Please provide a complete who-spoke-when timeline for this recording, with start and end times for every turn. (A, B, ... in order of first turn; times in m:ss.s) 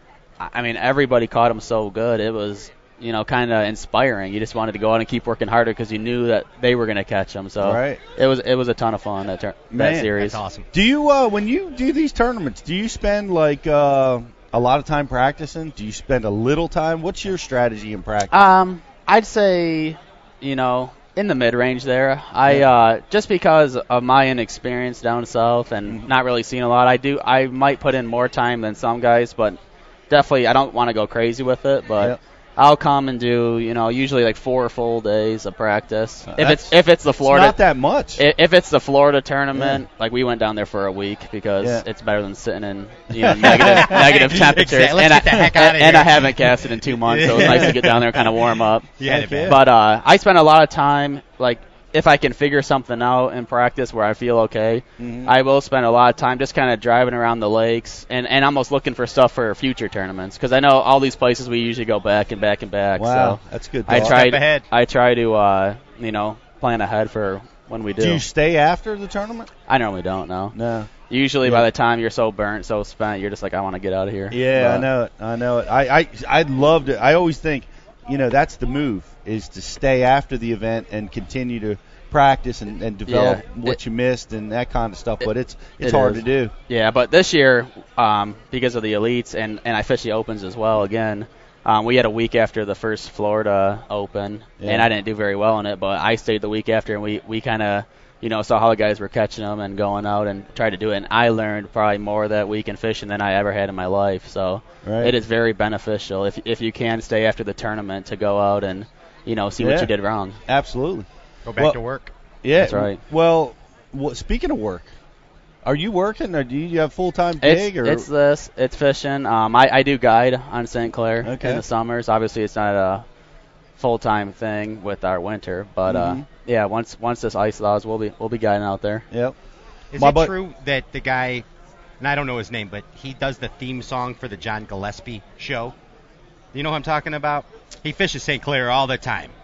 0:00.4-0:10.4 A
0:07.6-0:08.0 B
0:09.7-0:10.1 B
0:10.2-0:10.7 C
0:10.7-0:18.4 B
0:18.3-0:29.6 A
0:25.8-0:26.1 B
0:30.1-0:37.6 A
0:36.3-0:38.2 B
0:38.2-0:48.9 A
0:39.5-0:39.8 B
0:41.6-0:41.8 B
0:43.1-0:44.1 B
0:43.4-0:48.4 C
0:47.3-0:47.8 B
0:49.0-0:49.6 C
0:49.0-0:49.6 B
0:49.4-1:08.2 A
0:55.0-0:55.3 B
1:03.0-1:04.2 B
1:03.9-1:04.6 C
1:08.0-1:09.5 B
1:09.7-1:10.6 A
1:10.5-1:10.9 B
1:11.1-1:14.9 A
1:14.3-1:26.5 B
1:23.1-1:23.8 A
1:25.8-1:50.4 A
1:34.6-1:34.9 B
1:44.8-1:45.1 B
1:49.6-1:49.9 B
1:50.5-1:51.8 B
1:51.4-1:52.1 C
1:52.4-1:54.9 B
1:52.6-1:53.0 A
1:55.6-1:58.1 B
1:57.4-2:03.0 A
2:01.2-2:01.6 B
2:03.8-2:09.0 A
2:05.8-2:06.2 B
2:09.9-2:11.4 C
2:10.0-2:10.3 B
2:12.0-2:15.7 C
2:16.5-2:19.3 C